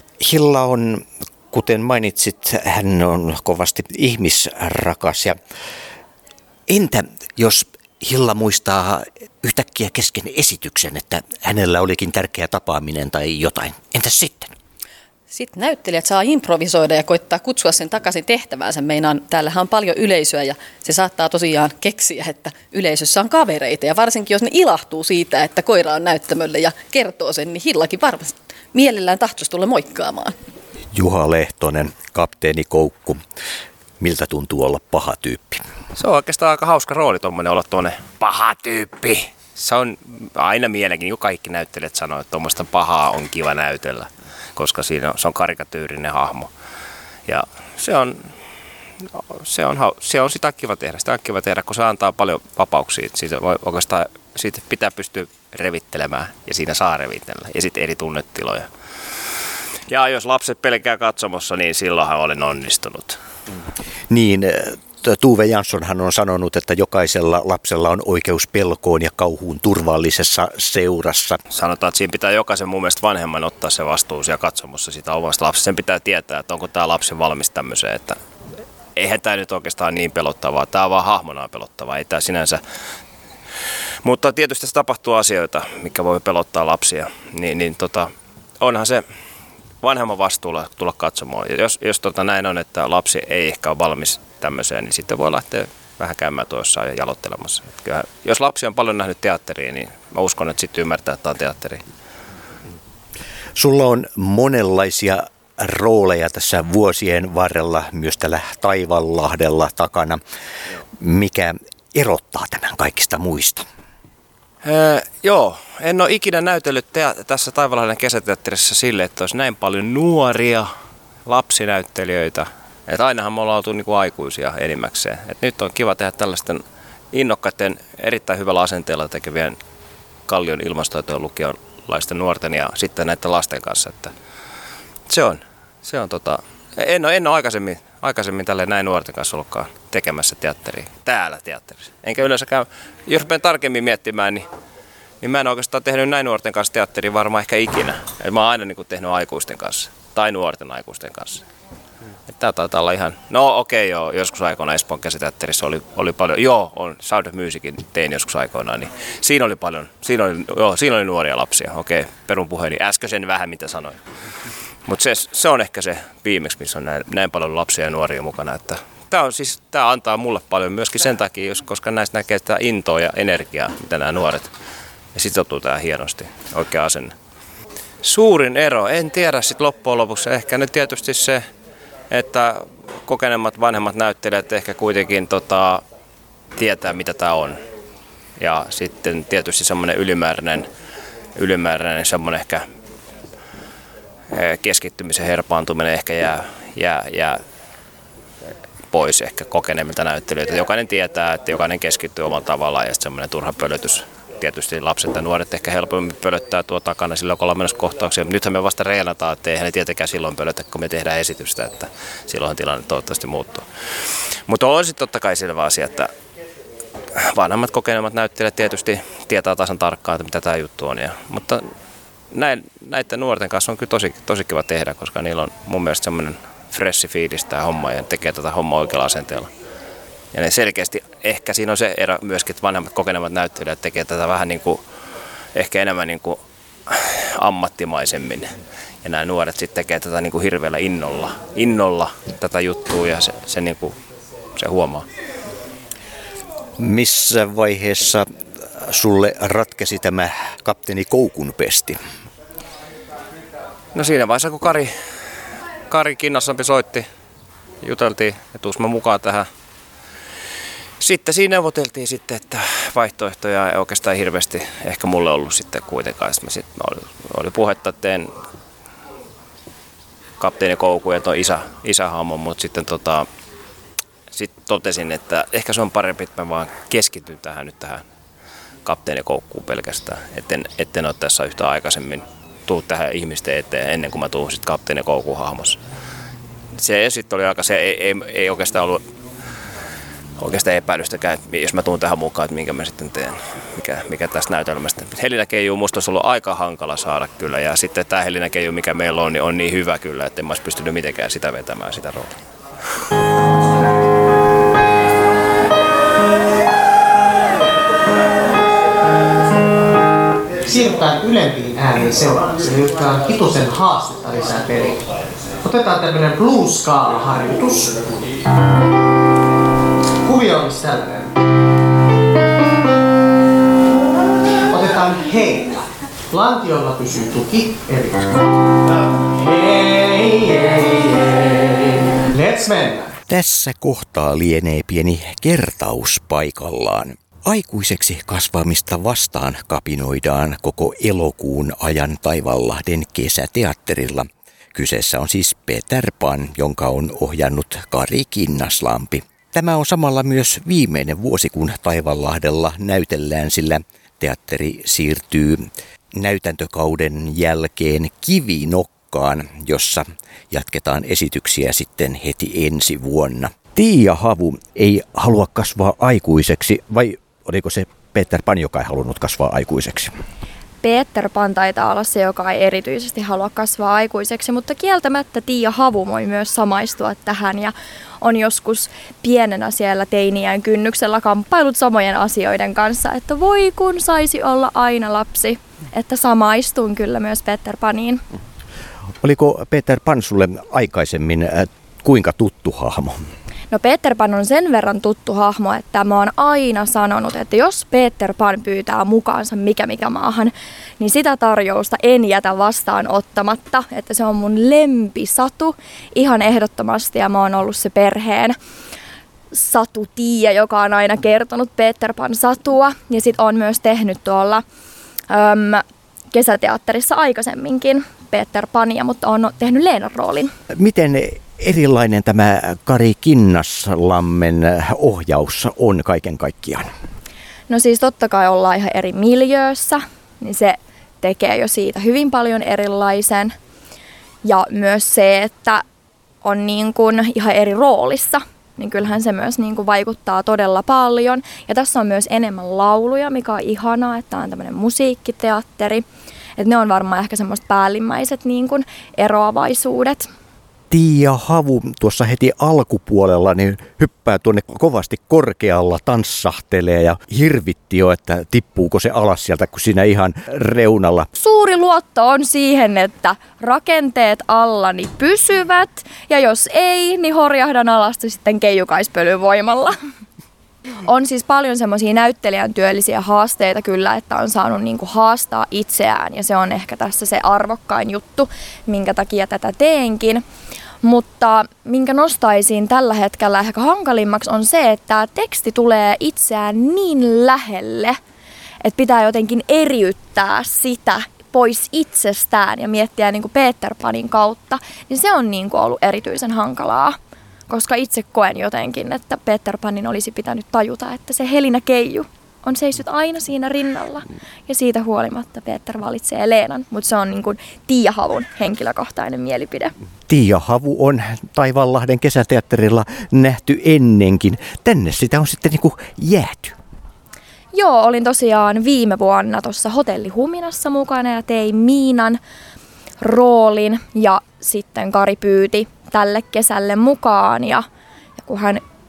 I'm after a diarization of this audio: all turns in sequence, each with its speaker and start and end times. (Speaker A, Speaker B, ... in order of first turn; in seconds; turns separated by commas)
Speaker A: 0.2-5.4, Speaker A: 6.7-14.5, Speaker B: 15.3-30.4, Speaker A: 30.9-33.2, Speaker A: 34.0-35.6, Speaker C: 36.0-46.5, Speaker C: 47.3-48.3, Speaker C: 49.0-58.7, Speaker C: 59.9-63.2, Speaker A: 64.1-71.4, Speaker C: 71.5-78.2, Speaker C: 79.0-82.6, Speaker C: 84.0-89.0, Speaker C: 89.8-101.8, Speaker A: 103.6-110.2, Speaker A: 111.0-113.7, Speaker C: 114.6-120.7, Speaker C: 121.2-129.6, Speaker C: 130.3-134.1, Speaker C: 135.1-144.5, Speaker C: 145.2-151.4, Speaker C: 152.3-164.0, Speaker C: 164.9-174.5, Speaker C: 175.1-177.2, Speaker C: 178.0-181.4, Speaker C: 182.1-185.8, Speaker C: 186.6-187.6, Speaker C: 188.4-190.7, Speaker C: 191.3-192.7, Speaker C: 194.3-197.4, Speaker C: 198.9-213.7, Speaker C: 214.5-216.1, Speaker C: 217.2-221.7, Speaker C: 222.3-229.5, Speaker C: 230.3-234.8, Speaker C: 235.5-244.0, Speaker C: 244.6-245.1, Speaker A: 246.8-252.0, Speaker C: 253.9-254.9, Speaker C: 255.9-257.1, Speaker C: 257.8-259.5, Speaker C: 261.0-268.3, Speaker C: 270.4-273.3, Speaker C: 274.3-278.1, Speaker C: 278.9-285.8, Speaker C: 286.8-289.0, Speaker C: 290.4-302.3, Speaker D: 310.6-315.0, Speaker D: 315.6-318.2, Speaker D: 320.2-321.3, Speaker D: 324.7-328.4, Speaker D: 329.3-333.1, Speaker A: 333.3-370.1, Speaker E: 370.8-388.2, Speaker A: 389.2-393.2, Speaker E: 393.7-408.6, Speaker E: 409.5-414.6, Speaker E: 415.3-420.5, Speaker A: 420.7-426.9, Speaker E: 427.7-433.6, Speaker E: 434.4-435.8, Speaker E: 436.4-446.1, Speaker E: 446.6-450.3, Speaker A: 450.9-461.3, Speaker E: 461.4-470.0, Speaker E: 471.1-480.4, Speaker E: 481.0-488.2, Speaker E: 488.8-497.2, Speaker E: 497.7-509.9, Speaker A: 510.3-516.8, Speaker E: 517.7-522.4, Speaker E: 523.2-527.9, Speaker E: 528.4-528.8